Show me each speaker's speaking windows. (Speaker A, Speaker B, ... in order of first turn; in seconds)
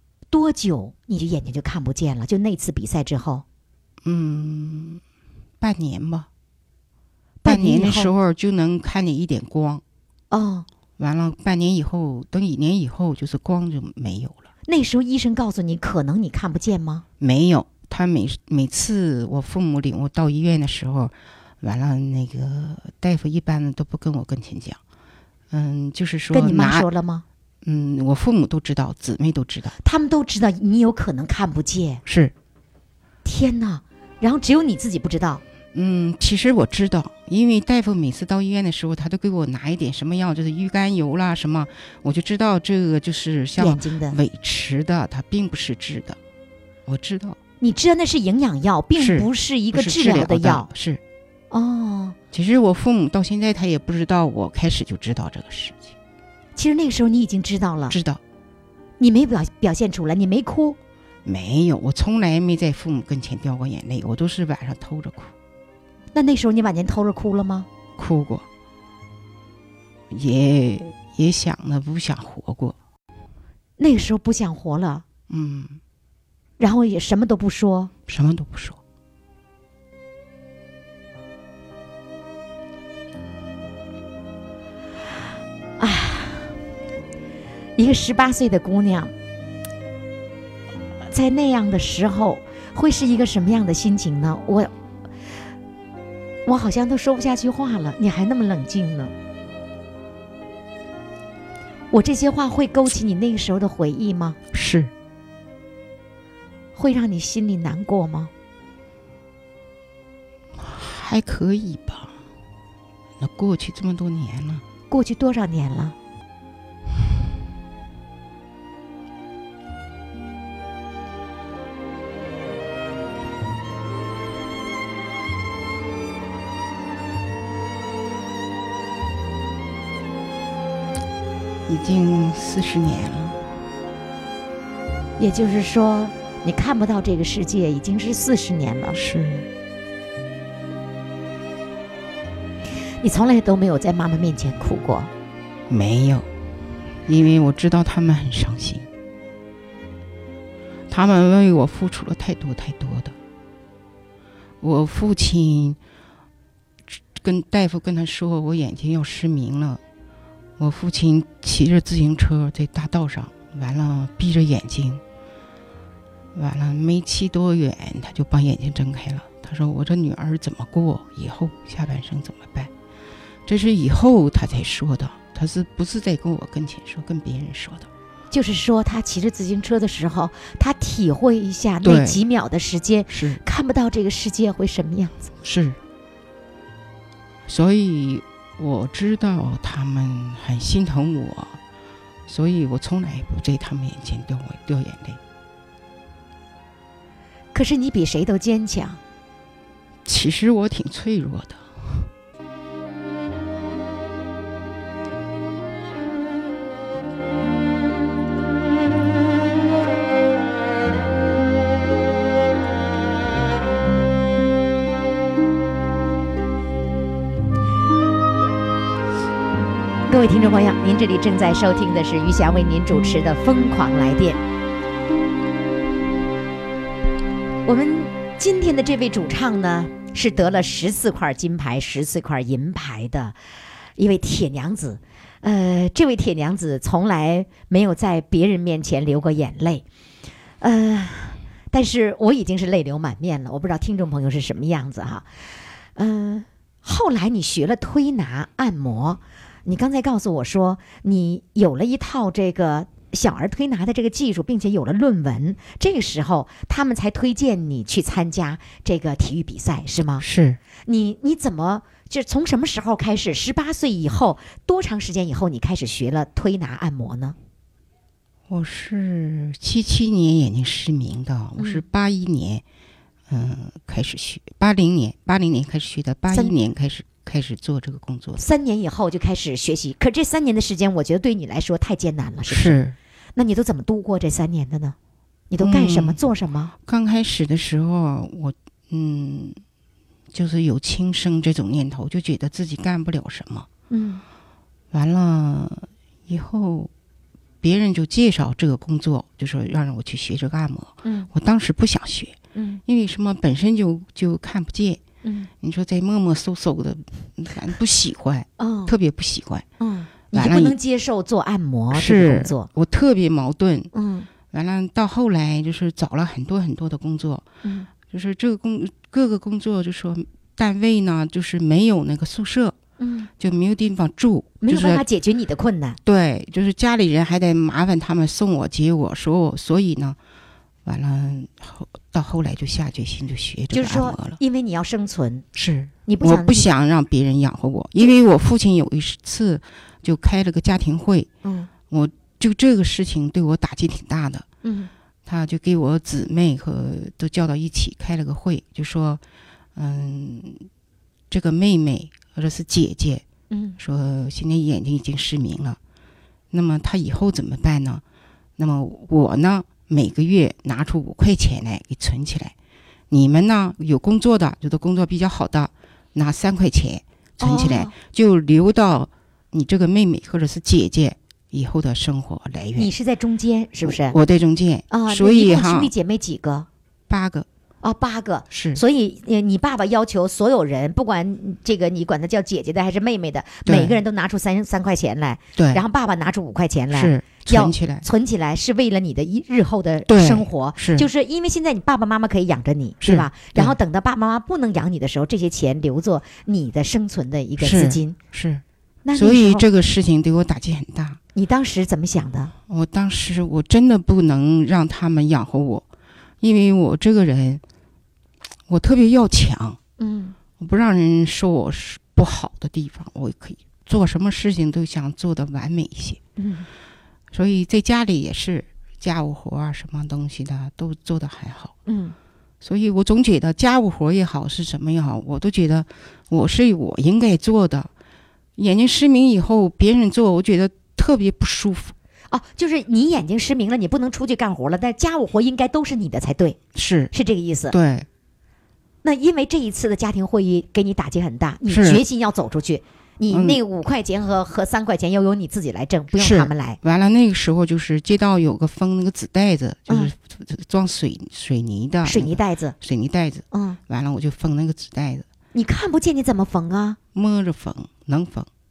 Speaker A: 0.3-3.4, 7.4-8.1, 10.3-10.7, 14.7-17.0, 26.3-27.2, 29.8-32.0, 33.2-35.4, 43.6-44.2, 47.6-50.7, 51.5-52.1, 56.5-58.0, 59.0-60.8, 66.1-67.7, 73.8-75.0, 76.6-77.9, 85.8-86.5, 87.8-89.1, 91.1-94.7, 96.5-99.1, 101.9-104.4, 106.8-108.3, 114.9-116.0, 135.2-139.0, 143.0-145.1, 178.3-185.2, 197.5-199.0, 220.1-224.4, 227.6-233.3, 234.0-239.8, 240.6-245.2, 245.9-260.2, 260.9-267.4, 271.6-271.8, 276.3-276.5, 278.4-282.8, 283.4-284.9, 285.5-286.7, 293.9-294.2, 301.0-301.3, 302.5-302.8, 305.2-305.5, 308.6-308.9, 309.8-312.7, 313.9-314.3, 323.0-323.3, 324.6-326.0, 333.7-335.4, 336.1-336.7, 341.4-341.7, 344.6-344.9, 353.5-353.8, 367.4-367.9, 372.8-374.2, 374.9-376.7, 377.8-398.1, 399.0-399.6, 401.3-402.5, 410.0-410.4, 416.4-416.7, 421.9-422.1, 432.3-436.6, 437.1-437.7, 439.0-446.8, 452.0-452.7, 453.5-453.8, 455.5-457.0
Speaker B: 4.0-5.0, 5.6-6.3, 7.4-9.8, 11.0-14.5, 17.2-24.8, 25.5-26.9, 27.6-29.7, 32.0-32.3, 35.7-46.2, 46.9-47.4, 49.0-51.0, 52.3-55.9, 57.9-58.2, 61.2-65.3, 68.0-68.4, 70.1-72.8, 75.3-75.8, 78.1-78.8, 104.5-104.9, 110.6-112.1, 113.2-114.6, 131.7-133.4, 138.9-139.4, 145.7-146.3, 147.1-148.9, 150.9-153.1, 154.6-155.8, 157.2-159.8, 160.6-165.0, 166.3-172.7, 173.4-177.9, 181.8-182.2, 183.1-183.4, 185.4-185.8, 187.5-191.6, 192.3-195.2, 200.0-202.1, 260.2-260.6, 268.5-272.6, 273.3-278.4, 282.5-282.9, 285.6-286.2, 286.8-289.6, 290.3-293.7, 294.9-296.9, 297.6-305.0, 305.6-309.6, 310.3-310.8, 311.9-313.9, 314.5-317.5, 318.0-322.8, 323.4-325.0, 326.0-330.2, 330.8-334.4, 335.5-341.3, 341.9-344.5, 345.2-349.2, 349.8-350.6, 351.3-353.2, 353.8-355.8, 356.5-358.0, 358.6-362.5, 363.1-372.9, 373.8-375.9, 377.1-377.5, 378.5-378.8, 383.6-384.0, 385.6-385.8, 386.9-388.1, 390.1-391.1, 393.0-393.8, 397.6-398.6, 399.1-401.2, 402.7-405.9, 406.4-407.6, 408.7-409.8, 410.6-416.2, 417.3-421.8, 422.6-427.9, 428.6-431.9, 436.7-437.1, 437.7-438.1, 441.7-442.0, 443.3-443.6, 446.2-455.2, 457.1-458.5